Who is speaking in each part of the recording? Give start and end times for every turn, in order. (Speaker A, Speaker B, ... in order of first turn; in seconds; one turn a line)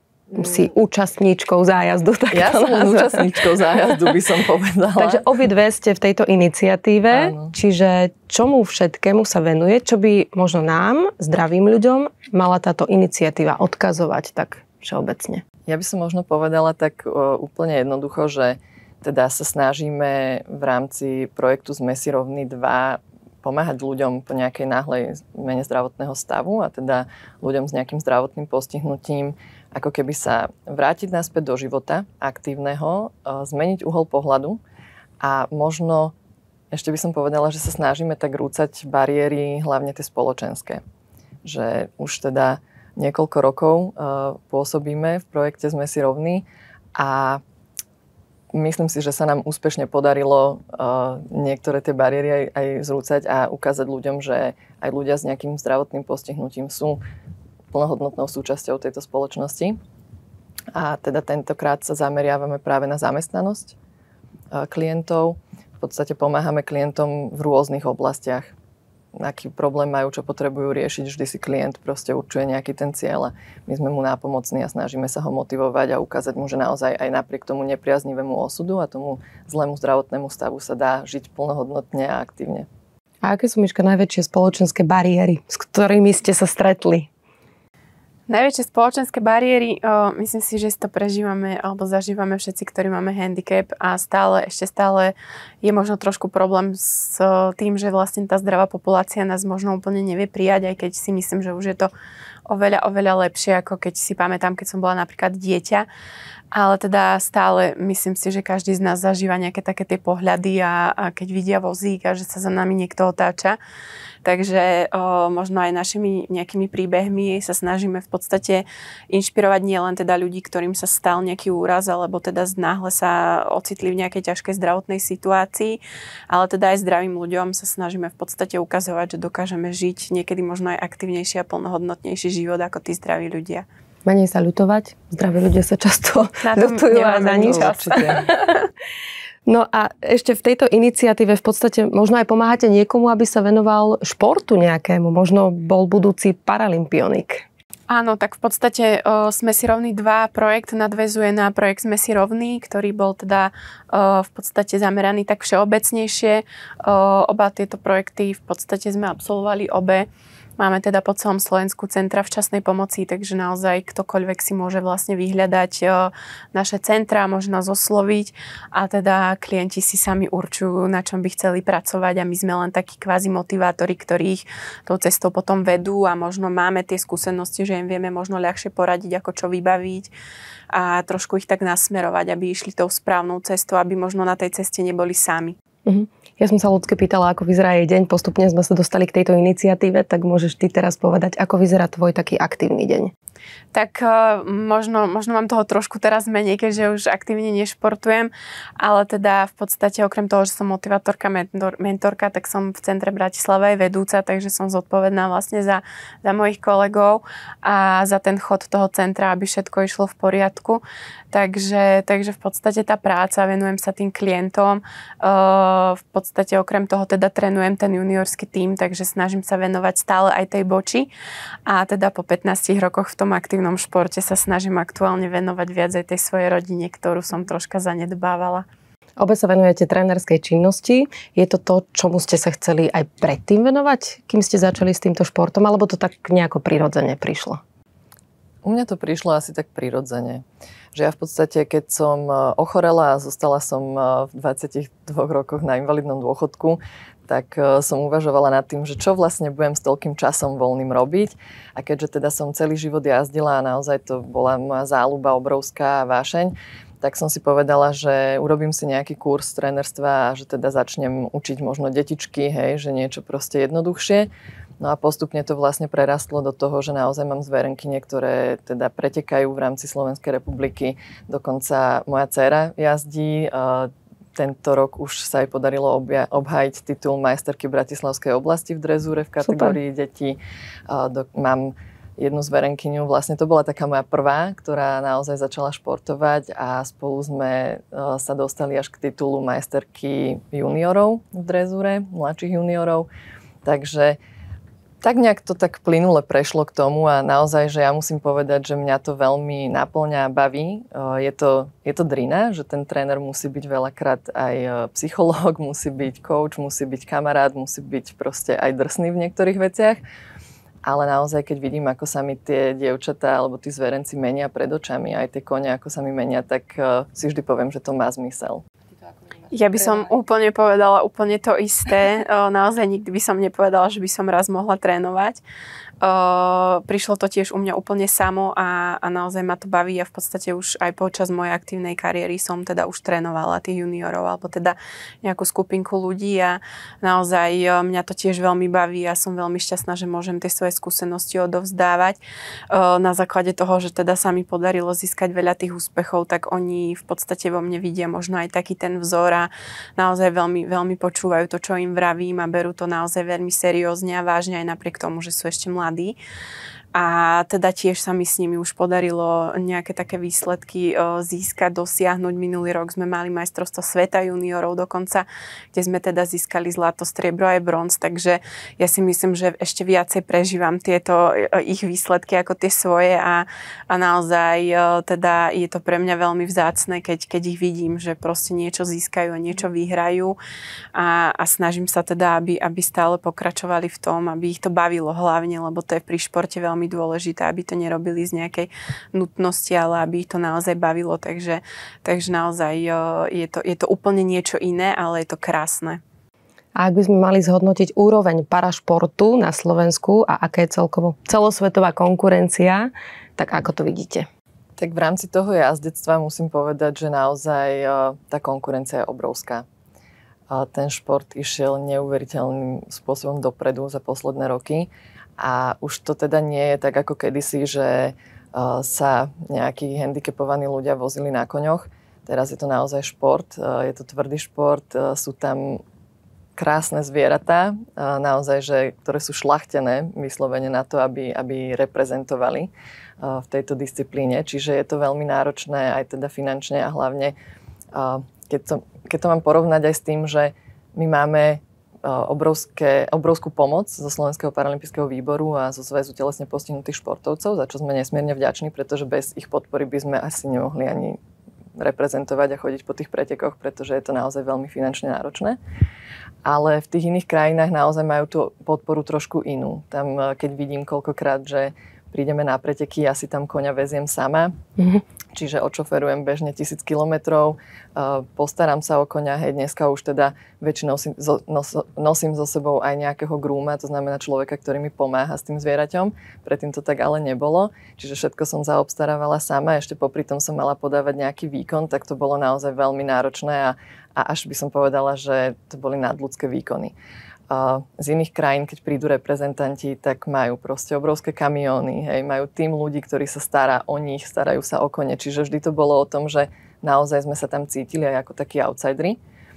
Speaker A: 0.3-3.3
Speaker B: 2.3-5.2
Speaker A: 5.0-15.4
Speaker B: 7.1-7.5
Speaker B: 15.7-34.6
Speaker B: 35.2-36.1
Speaker B: 36.7-40.8
Speaker B: 41.4-47.4
Speaker B: 48.5-57.0
Speaker B: 57.7-59.8
Speaker B: 60.7-63.8
Speaker B: 64.5-68.5
Speaker B: 69.2-82.7
Speaker A: 83.2-87.1
Speaker C: 88.3-101.9
Speaker C: 102.5-105.8
Speaker C: 106.5-113.6
Speaker C: 114.2-133.6
Speaker A: 134.1-138.5
Speaker C: 136.4-138.2
Speaker B: 137.4-138.2
Speaker A: 139.4-147.4
Speaker C: 147.9-160.1
Speaker C: 160.6-180.1
Speaker C: 180.7-185.6
Speaker A: 185.8-193.1
Speaker C: 193.7-210.8
Speaker C: 211.3-221.1
Speaker C: 221.7-228.6
Speaker A: 229.2-237.6
Speaker B: 238.6-264.3
Speaker B: 264.8-280.4
Speaker A: 279.4-279.8
Speaker B: 280.9-293.1
Speaker B: 293.6-294.2
Speaker B: 295.0-310.0
Speaker B: 310.8-318.6
Speaker C: 319.5-325.4
Speaker C: 326.0-342.2
Speaker C: 342.7-356.2
Speaker C: 356.9-380.4
Speaker C: 380.9-396.0
Speaker A: 396.8-404.3
Speaker B: 404.8-409.6
Speaker B: 410.5-425.8
Speaker B: 426.6-437.3
Speaker B: 437.9-451.2
Speaker B: 451.8-455.6
Speaker B: 456.4-464.6
Speaker B: 465.3-486.9
Speaker B: 487.5-499.2